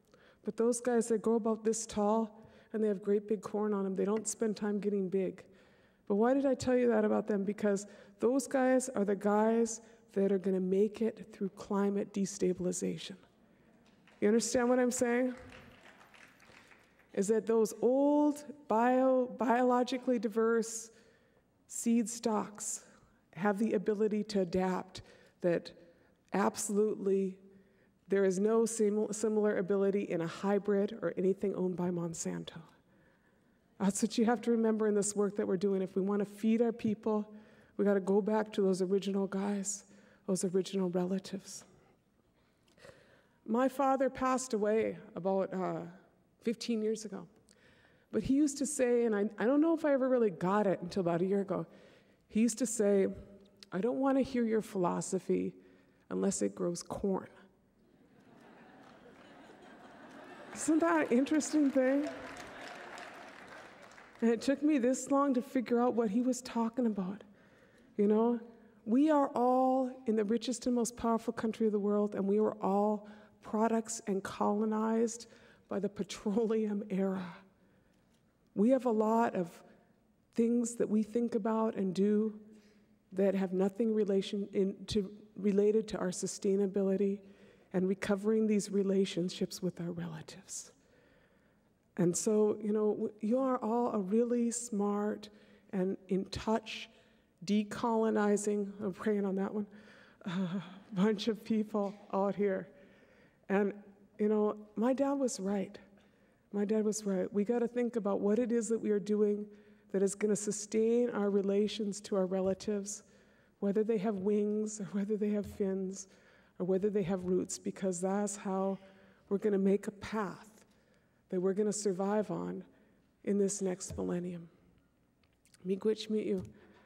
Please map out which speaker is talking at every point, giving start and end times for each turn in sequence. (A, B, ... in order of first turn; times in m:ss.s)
0:00.4-0:05.5 A
0:06.1-0:13.2 A
0:14.2-0:15.4 A
0:17.1-0:20.9 A
0:21.7-0:25.8 A
0:26.3-0:27.4 A
0:28.1-0:32.7 A
0:33.8-0:41.7 A
0:43.4-0:47.3 A
0:48.1-0:51.7 A
0:52.3-0:53.1 A
0:53.7-0:55.6 A
0:56.1-0:57.3 A
1:00.5-1:02.2 A
1:04.2-1:07.2 A
1:08.0-1:17.4 A
1:18.6-1:19.6 A
1:20.3-1:22.4 A
1:23.1-1:30.7 A
1:32.0-1:36.9 A
1:37.4-1:39.7 A
1:40.2-1:42.7 A
1:43.5-1:45.8 A
1:46.5-1:53.0 A
1:53.6-2:00.7 A
2:01.3-2:02.7 A
2:03.2-2:04.5 A
2:05.6-2:06.5 A